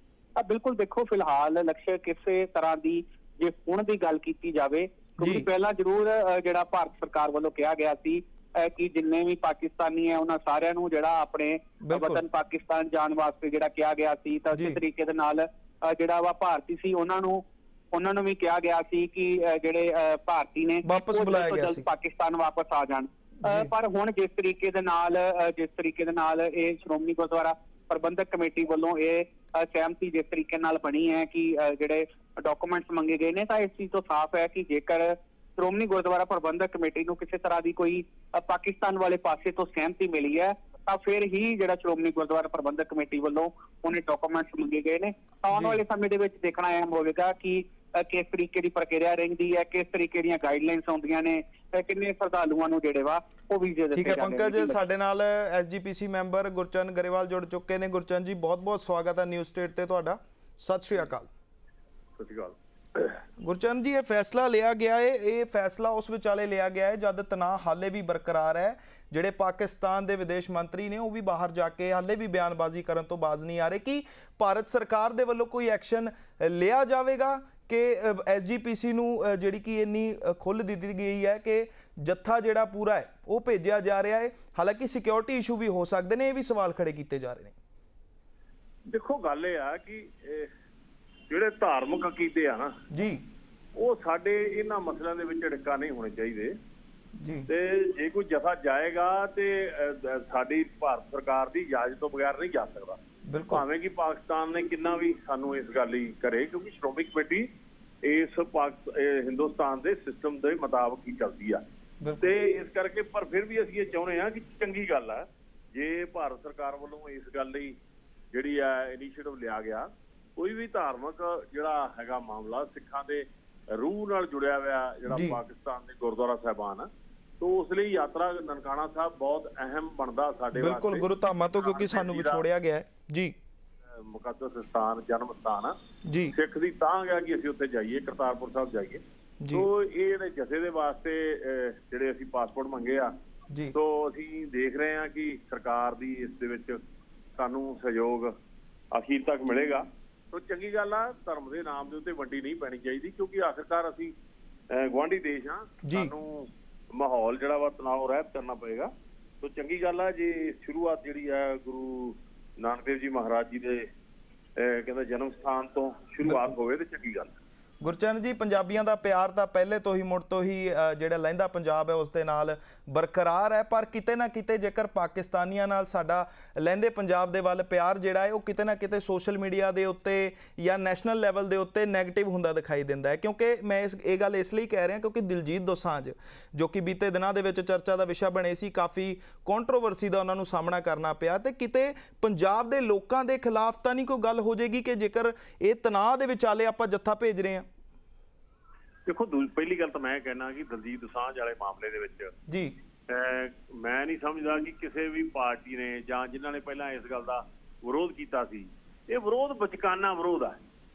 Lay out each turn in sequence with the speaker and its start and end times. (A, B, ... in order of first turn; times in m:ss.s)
0:00.4-0:54.8 A
0:05.2-0:05.4 B
0:11.8-0:12.2 B
0:14.5-0:14.8 B
0:20.8-0:21.8 B
0:23.4-0:23.7 B
0:45.5-0:45.8 B
0:54.0-1:01.3 B
1:02.2-1:03.1 C
1:03.4-1:27.6 B
1:28.9-1:30.5 C
1:31.3-1:32.8 C
1:32.9-1:33.2 B
1:33.8-1:36.5 C
1:37.2-1:37.5 B
1:37.5-1:47.5 C
1:43.3-1:43.6 B
1:48.0-1:51.6 C
1:52.0-1:52.3 B
1:52.2-1:57.8 C
1:58.3-2:06.9 C
2:05.1-2:05.4 B
2:07.4-2:12.4 C
2:10.6-2:13.3 B
2:14.0-2:15.8 C
2:16.1-2:16.3 B
2:16.3-2:19.0 C
2:19.4-2:19.7 B
2:19.5-2:23.1 C
2:23.7-2:26.8 C
2:27.4-2:28.3 C
2:28.9-2:34.1 C
2:34.7-2:43.9 C
2:35.8-2:36.1 B
2:44.6-2:47.3 C
2:46.2-2:46.5 B
2:47.8-3:17.7 B
3:19.1-3:22.3 C
3:22.5-3:22.7 B
3:23.1-3:30.6 C